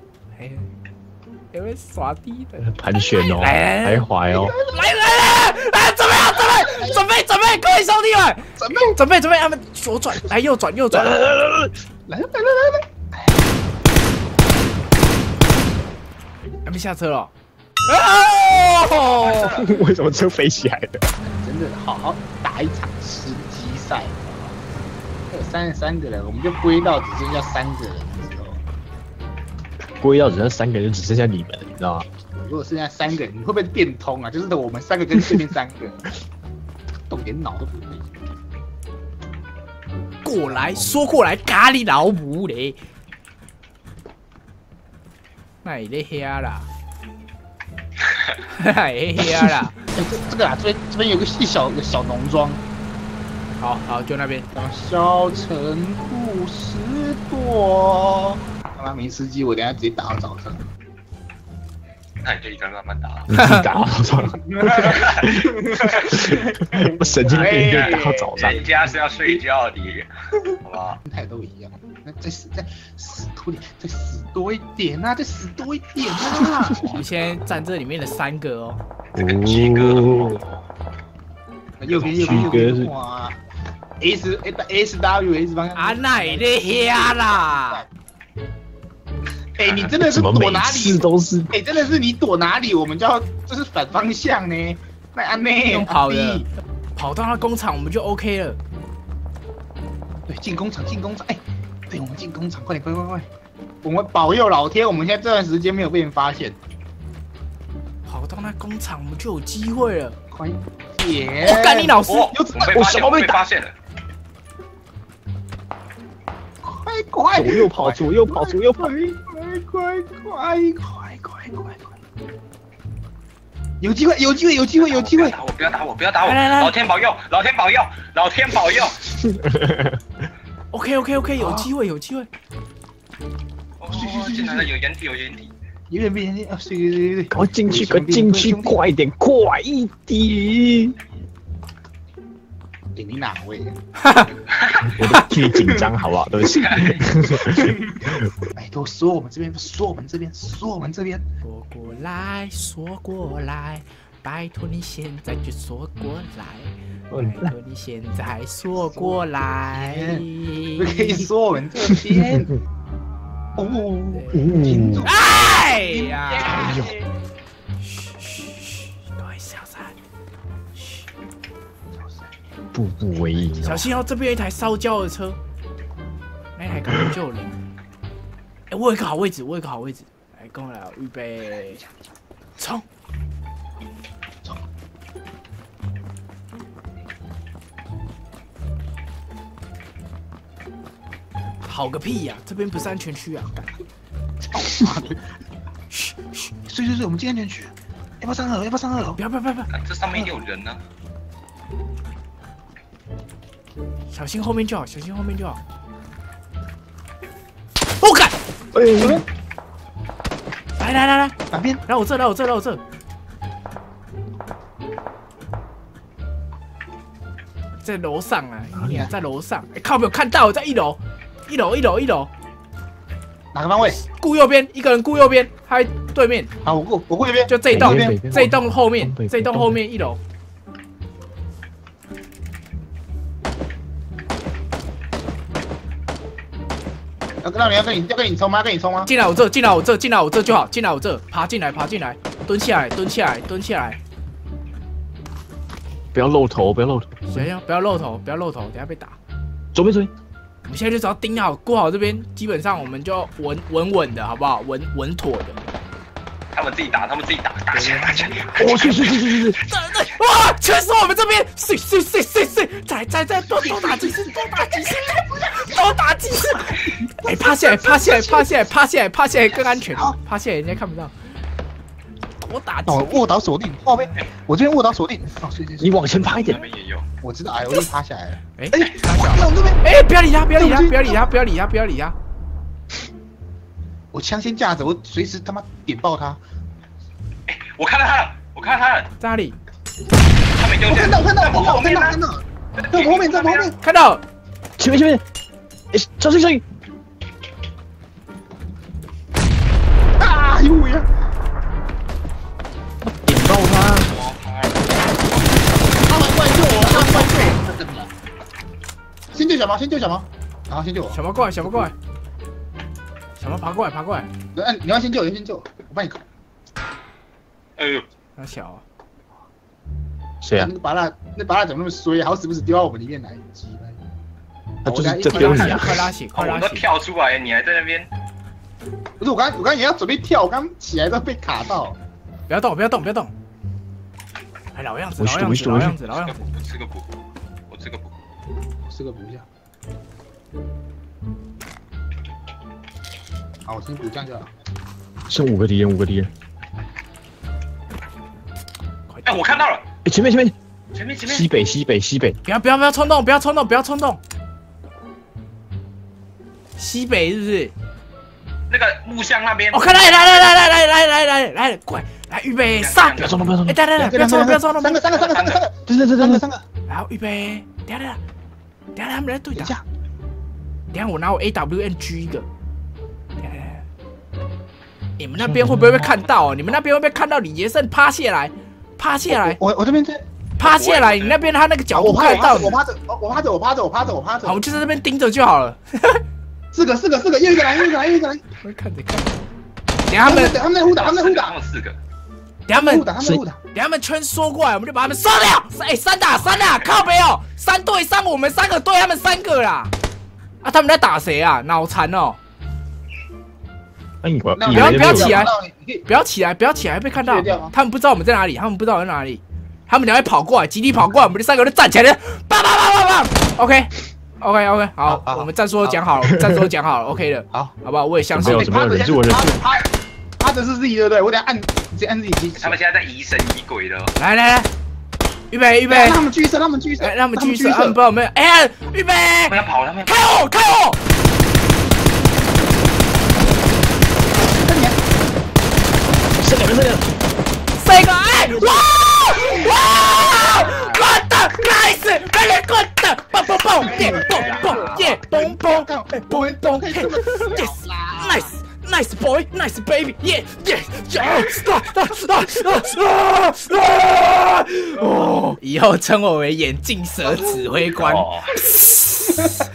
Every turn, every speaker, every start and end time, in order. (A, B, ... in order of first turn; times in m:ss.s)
0:00.3-0:00.7 A
0:01.5-0:02.7 A
0:02.6-0:04.6 B
0:03.3-0:04.1 A
0:04.3-0:04.9 C
0:04.7-0:11.2 A
0:06.3-0:07.0 C
0:08.6-0:09.0 C
0:10.9-0:11.7 B
0:12.1-0:13.4 C
0:16.6-0:17.3 A
0:17.9-0:19.5 A
0:19.2-0:19.7 D
0:19.6-0:21.1 B
0:21.2-0:24.6 C
0:25.3-0:28.6 C
0:30.0-0:32.0 B
0:32.4-0:36.1 C
0:37.1-0:38.1 C
0:40.2-0:42.8 A
0:40.4-0:41.0 C
0:45.6-0:46.7 A
0:48.5-0:49.8 A
0:49.9-0:52.6 C
0:53.6-0:54.5 A
0:54.5-1:00.6 C
1:02.2-1:03.2 D
1:03.3-1:08.6 B
1:04.2-1:08.7 C
1:07.3-1:10.1 D
1:10.6-1:11.0 D
1:11.0-1:17.1 C
1:16.8-1:18.8 A
1:19.1-1:20.4 B
1:19.2-1:20.6 D
1:21.8-1:23.4 C
1:21.9-1:22.4 D
1:22.1-1:22.9 B
1:24.0-1:27.9 C
1:25.8-1:27.8 A
1:29.6-1:36.5 C
1:30.0-1:31.5 B
1:35.7-1:38.6 A
1:40.3-1:43.3 C
1:43.8-1:46.6 C
1:48.0-1:50.2 A
1:50.3-1:52.9 C
1:51.4-1:52.3 A
1:52.1-1:53.7 D
1:52.7-1:53.4 B
1:56.6-2:01.9 C
1:57.3-1:58.9 B
2:03.8-2:05.4 C
2:04.8-2:09.0 D
2:06.2-2:06.8 A
2:09.1-2:10.0 B
2:10.7-2:12.3 A
2:11.4-2:11.7 C
2:13.8-2:15.5 D
2:13.9-2:14.7 C
2:15.9-2:18.8 C
2:17.3-2:21.0 B
2:22.9-2:23.8 C
2:24.0-2:24.3 A
2:24.6-2:25.0 D
2:24.8-2:27.7 B
2:25.4-2:25.9 C
2:26.6-2:27.0 D
2:26.8-2:31.2 C
2:31.4-2:41.3 A
2:37.1-2:37.5 B
2:38.8-2:42.5 C
2:43.6-2:47.0 C
2:44.1-2:44.4 A
2:44.3-2:45.0 B
2:45.0-2:46.7 A
2:46.5-2:46.9 B
2:47.8-2:49.9 A
2:50.8-2:51.0 A
2:52.7-2:53.9 B
2:53.6-2:55.4 A
2:56.5-2:57.6 A
2:58.7-3:01.8 A
3:02.6-3:02.8 A
3:11.6-3:13.7 A
3:14.5-3:15.2 C
3:15.9-3:16.5 A
3:16.7-3:19.2 C
3:19.2-3:19.7 A
3:19.7-3:20.8 D
3:24.1-3:25.6 A
3:28.0-3:28.3 A
3:28.7-3:29.2 B
3:29.0-3:29.2 C
3:30.8-3:31.3 A
3:31.5-3:31.8 C
3:31.8-3:32.8 A
3:37.8-3:42.3 A
3:38.7-3:39.1 B
3:43.5-3:44.0 C
3:44.0-3:46.5 A
3:46.6-3:48.2 C
3:47.5-3:50.2 A
3:47.7-3:49.8 B
3:57.4-3:59.1 C
3:59.0-4:04.0 A
4:06.1-4:07.5 B
4:07.3-4:09.2 A
4:09.7-4:10.1 B
4:10.6-4:15.6 A
4:16.5-4:18.8 D
4:17.7-4:18.9 C
4:18.6-4:19.6 B
4:19.6-4:31.1 A
4:23.4-4:25.7 C
4:27.0-4:28.7 C
4:29.6-4:30.2 C
4:32.4-4:33.3 A
4:32.9-4:36.6 C
4:35.8-4:36.6 B
4:36.2-4:37.0 D
4:37.2-4:39.8 C
4:38.6-4:42.1 A
4:40.5-4:41.3 C
4:44.1-4:46.4 C
4:47.5-4:49.1 D
4:49.2-4:49.6 A
4:50.6-4:52.2 D
4:50.8-4:53.8 C
4:52.8-4:53.7 D
4:53.8-4:54.2 A
4:54.8-4:55.2 B
4:55.9-4:56.6 B
5:00.2-5:01.1 C
5:03.0-5:04.1 B
5:04.1-5:05.5 D
5:06.0-5:08.1 C
5:06.8-5:07.3 A
5:09.3-5:11.9 C
5:11.1-5:11.9 A
5:13.4-5:14.3 A
5:14.5-5:16.2 C
5:17.8-5:18.0 D
5:18.4-5:18.8 A
5:20.4-5:20.7 B
5:20.6-5:24.0 C
5:24.8-5:26.1 B
5:24.8-5:25.9 C
5:25.3-5:26.9 A
5:25.5-5:25.8 D
5:26.3-5:28.1 D
5:29.2-5:32.0 C
5:32.5-5:33.3 A
5:34.7-5:36.4 A
5:35.2-5:36.0 B
5:36.1-5:37.1 D
5:37.7-5:38.1 D
5:38.8-5:39.4 C
5:43.6-5:44.5 C
5:45.3-5:46.3 B
5:49.1-5:49.6 A
5:49.2-5:49.8 D
5:50.0-5:50.5 B
5:50.9-5:51.5 D
5:51.2-5:52.4 B
5:52.4-5:54.2 A
5:56.8-5:57.7 A
5:58.7-6:00.5 D
5:59.7-6:05.0 A
6:02.8-6:03.4 D
6:03.2-6:03.8 B
6:04.0-6:06.6 C
6:05.1-6:05.6 D
6:05.9-6:06.4 B
6:06.9-6:08.2 A
6:08.9-6:09.7 A
6:09.5-6:09.8 C
6:10.9-6:12.5 A
6:13.4-6:13.8 A
6:15.2-6:19.6 A
6:15.4-6:16.1 B
6:16.2-6:16.7 D
6:19.3-6:20.2 C
6:20.6-6:22.8 A
6:20.6-6:21.5 D
6:21.9-6:24.6 C
6:24.4-6:26.2 A
6:26.7-6:28.4 C
6:28.6-6:29.3 A
6:30.1-6:30.6 A
6:30.2-6:31.6 C
6:30.9-6:32.0 D
6:32.7-6:33.1 A
6:32.8-6:33.6 C
6:33.7-6:39.9 A
6:40.6-6:42.4 A
6:44.2-6:45.5 B
6:44.6-6:46.0 C
6:44.7-6:45.5 A
6:46.0-6:58.7 A
6:47.1-6:47.7 C
6:55.0-6:56.0 C
6:58.3-6:59.6 B
6:58.4-7:02.8 C
7:02.5-7:04.1 D
7:04.2-7:04.7 A
7:05.5-7:06.2 A
7:05.9-7:08.0 C
7:07.0-7:11.0 A
7:09.5-7:10.2 D
7:14.4-7:15.0 C
7:16.4-7:17.0 B
7:17.8-7:39.4 A
7:18.8-7:21.0 C
7:23.7-7:28.5 C
7:24.3-7:24.8 D
7:38.0-7:38.5 D